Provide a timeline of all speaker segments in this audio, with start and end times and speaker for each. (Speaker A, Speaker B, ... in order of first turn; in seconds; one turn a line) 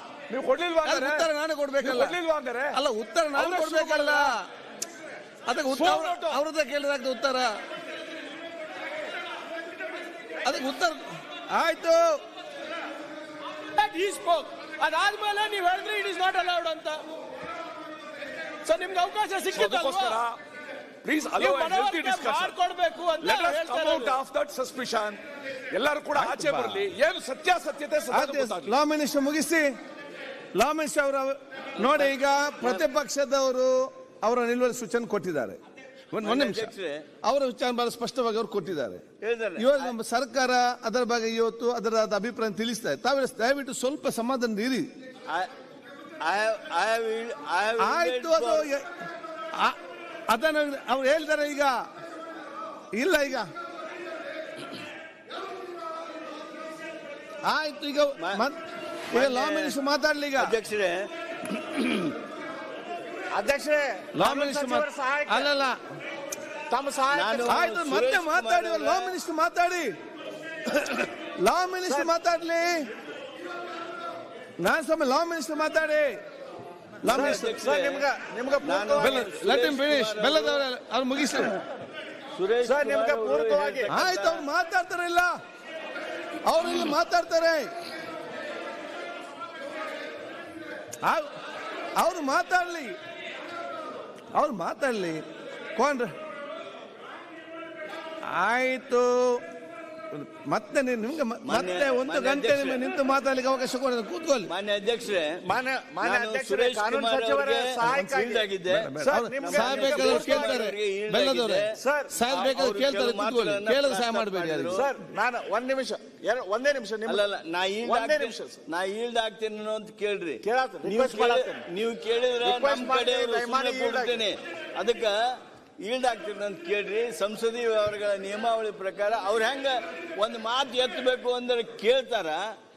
Speaker A: 0.3-1.3
Speaker B: 0.8-2.2
Speaker A: 1.8-2.8
Speaker B: 2.7-4.3
Speaker A: 3.4-4.3
Speaker B: 5.5-7.5
Speaker C: 5.7-6.3
Speaker A: 6.0-6.4
Speaker B: 10.4-12.1
Speaker C: 13.7-17.0
Speaker C: 18.6-20.2
Speaker A: 19.5-20.4
Speaker A: 21.0-22.6
Speaker C: 21.4-24.2
Speaker A: 23.2-28.8
Speaker B: 26.2-26.9
Speaker B: 28.1-29.7
Speaker B: 30.5-35.6
Speaker D: 31.8-32.9
Speaker B: 36.1-36.7
Speaker D: 36.2-37.1
Speaker B: 37.2-39.0
Speaker D: 39.2-40.0
Speaker B: 39.6-44.9
Speaker D: 46.2-48.7
Speaker B: 47.8-48.8
Speaker B: 50.3-51.9
Speaker B: 52.9-53.5
Speaker B: 57.4-58.6
Speaker D: 58.2-58.5
Speaker B: 59.1-60.5
Speaker D: 59.1-59.8
Speaker D: 60.4-62.1
Speaker E: 63.3-65.5
Speaker B: 64.2-65.8
Speaker E: 66.7-67.6
Speaker D: 67.1-69.2
Speaker B: 67.5-69.9
Speaker B: 70.7-72.8
Speaker E: 71.8-72.1
Speaker B: 74.6-76.2
Speaker B: 77.0-77.5
Speaker E: 77.1-79.2
Speaker D: 77.1-78.0
Speaker D: 78.6-80.6
Speaker B: 78.9-81.5
Speaker D: 82.3-84.5
Speaker E: 82.6-83.9
Speaker B: 83.9-85.3
Speaker B: 86.4-87.7
Speaker B: 92.0-93.0
Speaker B: 94.3-95.2
Speaker B: 95.8-96.1
Speaker B: 98.3-99.4
Speaker B: 100.1-104.5
Speaker D: 101.4-103.0
Speaker D: 104.5-105.4
Speaker E: 105.4-108.5
Speaker D: 106.0-114.9
Speaker B: 108.7-114.8
Speaker E: 109.0-110.7
Speaker E: 111.8-112.1
Speaker E: 114.7-117.2
Speaker D: 117.1-125.1
Speaker E: 117.8-118.6
Speaker E: 120.4-121.7
Speaker E: 122.4-124.2
Speaker D: 125.8-132.4